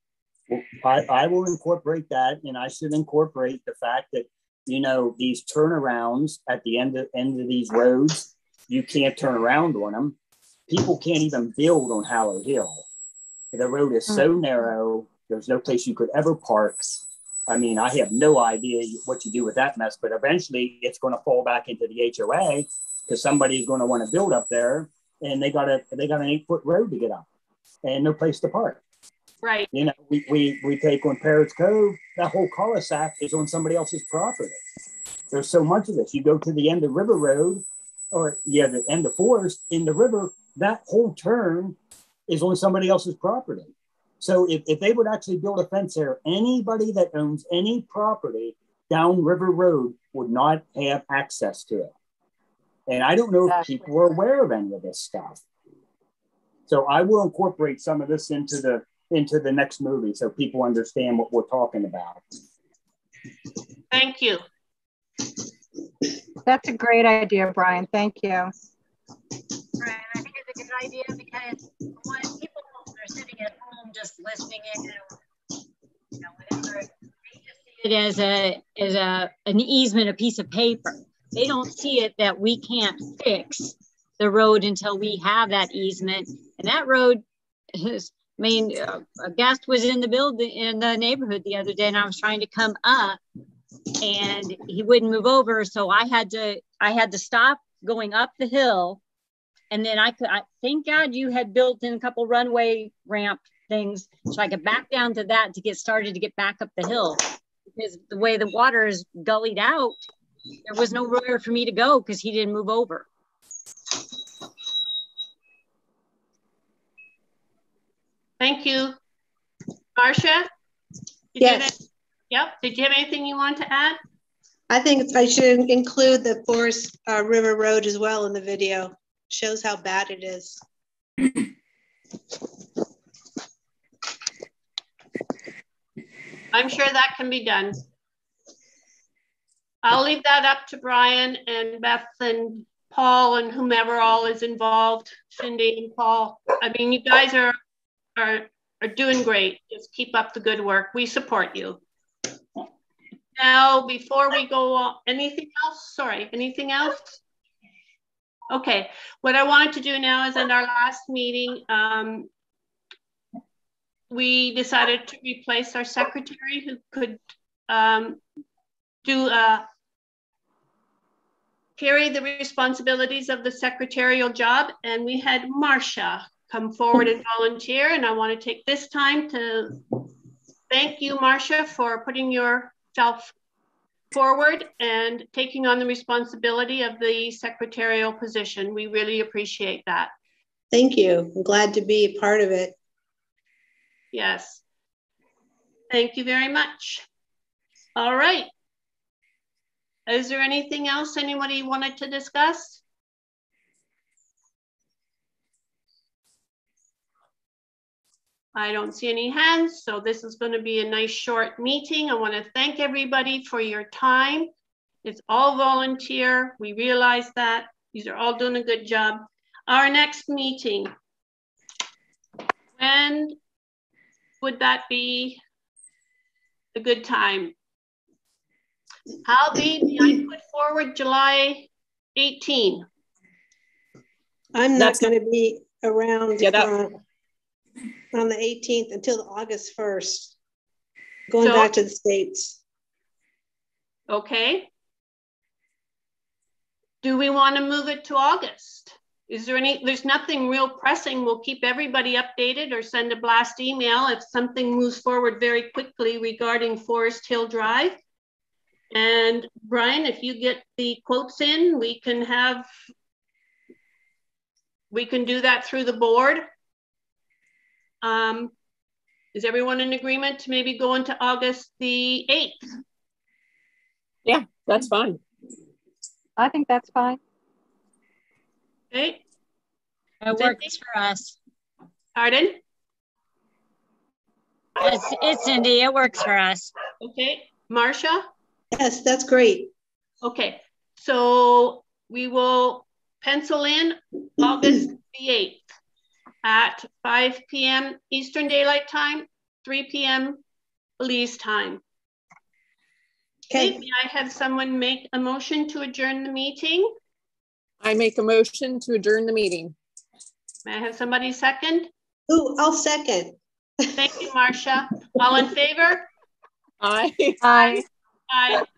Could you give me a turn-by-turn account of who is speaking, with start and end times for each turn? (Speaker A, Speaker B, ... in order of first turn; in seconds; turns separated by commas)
Speaker A: 0.5-10.2, Speaker A: 10.7-12.8, Speaker A: 13.5-27.2, Speaker A: 27.8-28.8, Speaker B: 29.4-29.7, Speaker A: 29.7-34.6, Speaker A: 35.3-41.8, Speaker A: 42.3-51.9, Speaker A: 52.9-55.4, Speaker A: 56.7-62.2, Speaker B: 63.9-64.4, Speaker C: 66.4-68.5, Speaker D: 69.8-75.1, Speaker D: 76.4-76.9, Speaker D: 77.7-93.2, Speaker D: 94.0-99.0, Speaker D: 99.7-110.0, Speaker D: 110.6-113.1, Speaker B: 118.4-118.9, Speaker B: 120.0-120.5, Speaker B: 121.3-121.8, Speaker E: 121.4-121.7, Speaker B: 122.3-124.0, Speaker E: 124.7-130.6, Speaker B: 136.5-137.8, Speaker B: 139.8-147.6, Speaker B: 148.2-151.8, Speaker B: 153.4-157.2, Speaker B: 158.5-162.3, Speaker B: 164.1-168.2, Speaker B: 169.0-169.6, Speaker B: 171.8-179.8, Speaker B: 180.7-183.3, Speaker B: 184.1-190.1, Speaker E: 190.7-192.7, Speaker B: 194.1-194.6, Speaker B: 195.9-197.0, Speaker B: 197.9-198.5, Speaker B: 200.1-202.8, Speaker B: 208.5-214.5, Speaker B: 215.0-220.9, Speaker B: 222.8-223.3, Speaker B: 224.4-225.4, Speaker B: 226.7-227.5, Speaker B: 229.2-232.8, Speaker E: 234.5-237.0, Speaker F: 234.8-235.1, Speaker F: 236.4-236.7, Speaker E: 238.1-240.3, Speaker E: 241.3-242.6, Speaker B: 241.4-241.7, Speaker B: 244.1-244.7, Speaker B: 247.0-258.0, Speaker B: 258.9-262.7, Speaker B: 264.9-266.4, Speaker B: 268.0-268.5, Speaker B: 269.3-272.6, Speaker F: 274.2-275.2, Speaker C: 276.4-277.2, Speaker B: 278.9-279.2, Speaker D: 280.2-281.4, Speaker B: 280.4-280.7, Speaker B: 282.1-282.6, Speaker D: 284.8-286.7, Speaker B: 287.0-288.2, Speaker E: 288.7-289.7, Speaker B: 290.2-295.6, Speaker B: 296.4-300.4, Speaker B: 301.0-301.8, Speaker E: 303.5-303.8, Speaker B: 303.5-306.9, Speaker F: 307.8-309.7, Speaker B: 310.6-311.9, Speaker E: 312.3-313.4, Speaker B: 313.9-316.1, Speaker E: 314.0-314.2, Speaker F: 316.8-317.8, Speaker C: 317.4-317.8, Speaker B: 318.3-318.6